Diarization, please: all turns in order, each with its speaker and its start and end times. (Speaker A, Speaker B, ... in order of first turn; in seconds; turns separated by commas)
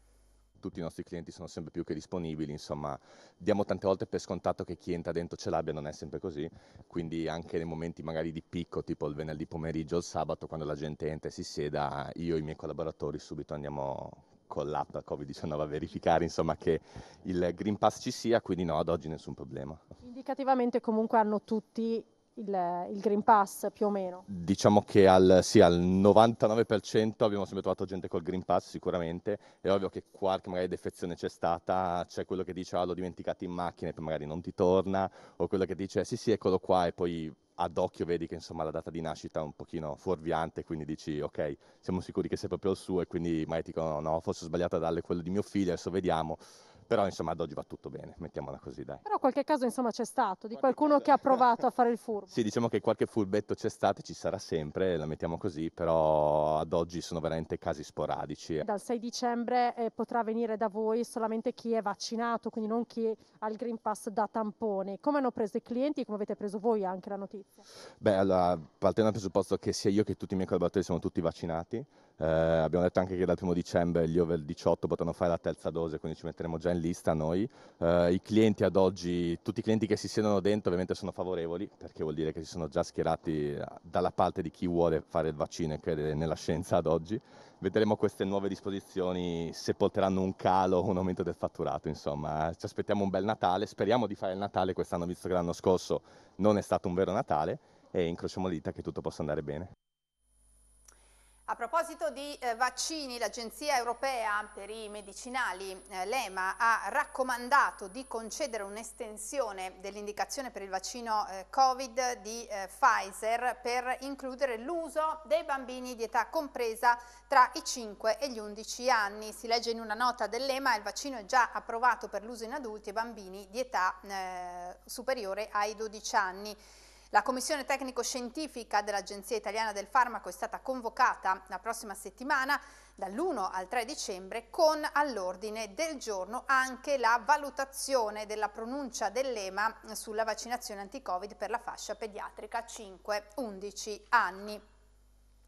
Speaker A: 0.6-19.8, Speaker B: 20.0-24.2, Speaker A: 24.3-49.0, Speaker B: 49.0-52.4, Speaker A: 52.3-58.6, Speaker B: 58.6-67.6, Speaker A: 68.0-99.7, Speaker C: 101.5-126.6, Speaker C: 127.1-144.6